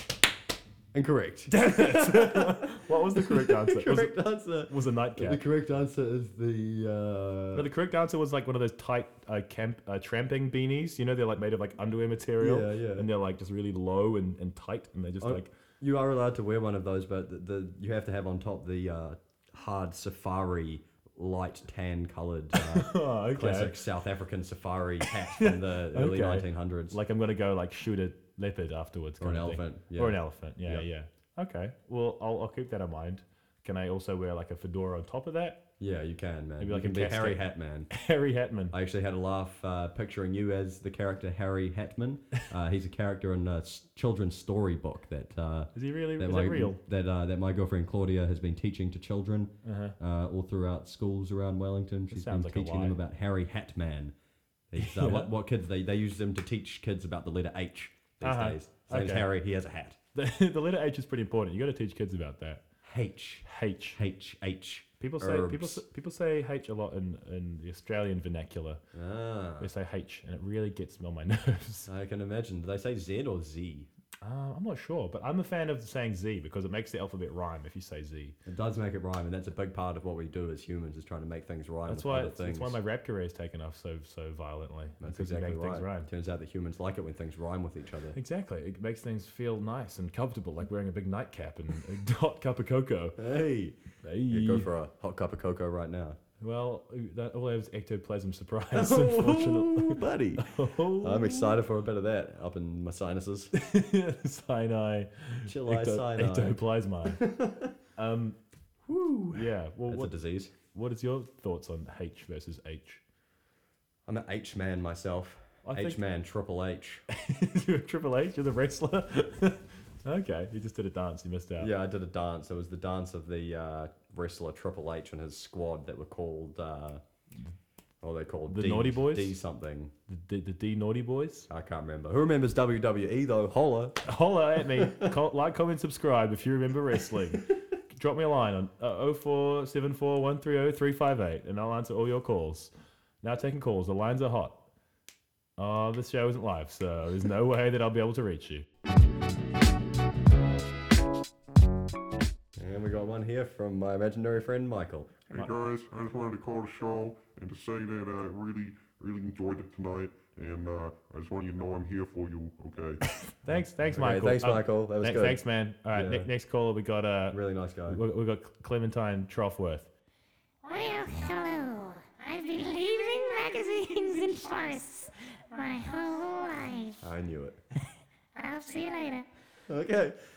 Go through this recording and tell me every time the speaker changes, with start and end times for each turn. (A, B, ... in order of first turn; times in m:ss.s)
0:00.9-0:07.7 A
0:01.5-0:04.2 B
0:04.7-0:05.4 B
0:07.5-0:15.5 B
0:12.4-0:13.1 A
0:15.2-0:27.0 A
0:22.6-0:23.8 B
0:25.1-0:35.6 B
0:29.2-0:30.9 A
0:35.8-0:37.9 A
0:36.6-0:38.7 B
0:38.7-0:54.1 A
0:45.8-0:46.8 B
0:49.6-0:50.0 B
0:52.1-0:53.0 B
0:54.7-1:00.0 A
0:54.8-0:55.3 B
0:58.2-0:59.3 B
1:00.2-1:02.6 B
1:02.8-1:05.8 A
1:03.4-1:04.0 B
1:05.0-1:08.8 B
1:08.9-1:09.7 A
1:09.6-1:11.9 B
1:11.9-1:13.9 A
1:14.2-1:18.4 B
1:18.5-1:22.8 A
1:21.9-1:26.1 B
1:25.0-1:28.2 A
1:28.1-1:33.2 B
1:33.2-1:33.8 A
1:34.0-1:34.7 B
1:34.3-1:36.2 A
1:36.4-1:41.6 B
1:38.7-1:40.5 A
1:41.0-1:43.5 A
1:43.5-1:47.2 B
1:45.5-1:47.8 A
1:48.0-1:48.4 B
1:48.9-1:50.5 A
1:49.3-1:50.1 B
1:50.7-1:53.0 B
1:54.1-1:57.0 A
1:55.6-1:56.0 B
1:57.1-2:01.7 B
2:01.6-2:07.0 A
2:08.0-2:09.9 A
2:08.5-2:09.4 B
2:10.1-2:11.5 B
2:11.5-2:14.0 A
2:14.0-2:22.7 B
2:14.6-2:15.1 A
2:23.2-2:24.6 B
2:25.6-2:28.6 B
2:32.6-2:35.3 A
2:35.3-2:43.0 C
2:43.4-2:49.9 B
2:43.9-2:46.3 A
2:47.3-2:48.0 A
2:50.6-2:57.0 D
2:57.0-2:57.6 A
2:58.4-2:59.3 D
2:59.7-3:00.2 A